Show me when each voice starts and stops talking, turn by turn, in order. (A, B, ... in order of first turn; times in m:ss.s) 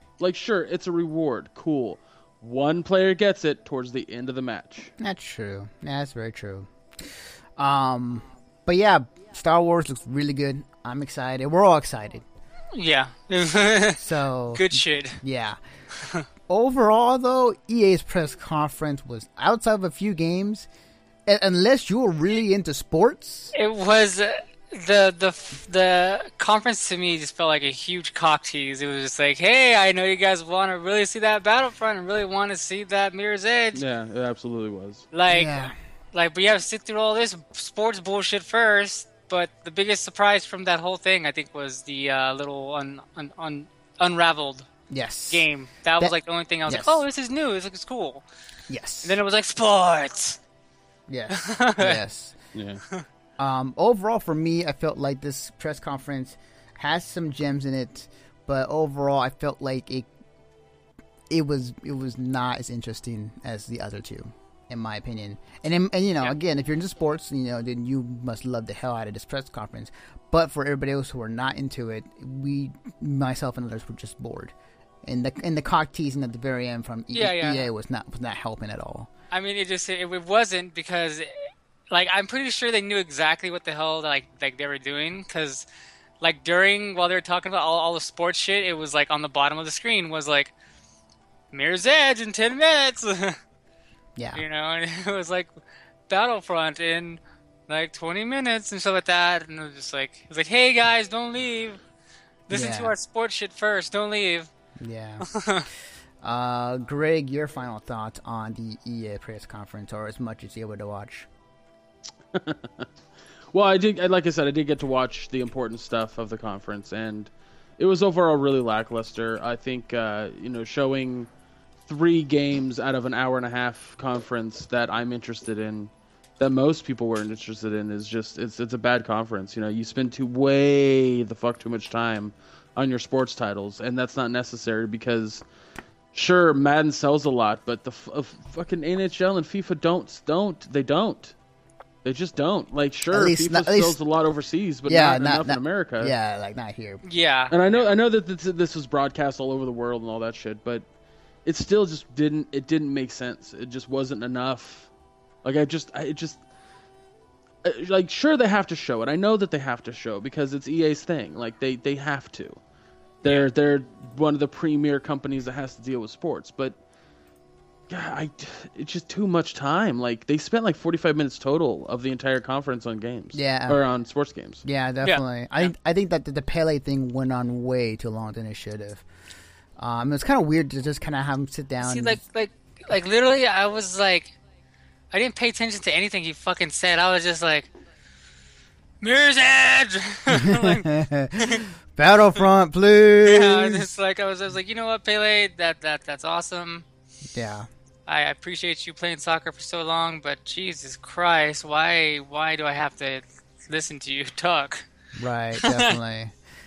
0:00.2-0:04.9 A
0:05.0-0:12.2 B
0:12.7-0:14.0 C
0:14.0-0:15.6 B
0:14.6-0:15.2 C
0:16.0-0:16.3 C
0:16.5-0:20.7 B
0:21.3-0:23.5 B
0:23.6-0:33.8 C
0:33.7-0:35.1 A
0:35.1-0:44.7 C
0:35.3-0:35.7 B
0:44.9-0:45.4 B
0:45.3-0:48.2 C
0:46.7-0:47.0 B
0:48.7-0:49.2 B
0:49.0-0:50.4 C
0:51.1-0:52.4 B
0:51.3-0:52.0 C
0:52.5-0:52.8 A
0:53.4-1:00.1 B
1:01.3-1:14.5 B
1:15.0-1:19.1 B
1:17.1-1:17.7 C
1:19.3-1:21.3 C
1:21.9-1:25.6 C
1:26.2-1:30.5 C
1:31.5-1:33.4 C
1:34.2-1:34.4 B
1:34.4-1:35.5 C
1:36.1-1:41.8 C
1:42.5-1:44.5 C
1:42.5-1:42.9 B
1:44.8-1:45.3 B
1:45.2-1:45.7 C
1:46.2-1:51.3 B
1:52.3-1:52.9 A
1:53.5-2:01.3 A
2:01.8-2:15.4 A
2:16.1-2:21.4 A
2:22.0-2:26.1 A
2:23.1-2:24.0 B
2:24.9-2:27.0 B
2:27.0-2:27.6 C
2:27.5-2:30.8 A
2:31.4-2:34.9 A
2:35.4-2:36.4 A
2:37.6-2:42.6 A
2:43.2-2:46.8 A
2:47.9-2:54.6 A
2:53.3-2:53.8 B
2:54.6-2:59.0 B
2:55.0-2:55.7 C
2:59.8-3:02.2 B
3:01.8-3:04.3 C
3:05.1-3:07.7 C
3:09.0-3:10.9 C
3:10.3-3:13.9 B
3:13.2-3:16.8 C
3:17.3-3:17.7 B
3:18.1-3:24.9 C
3:25.2-3:26.3 B
3:25.6-3:26.0 C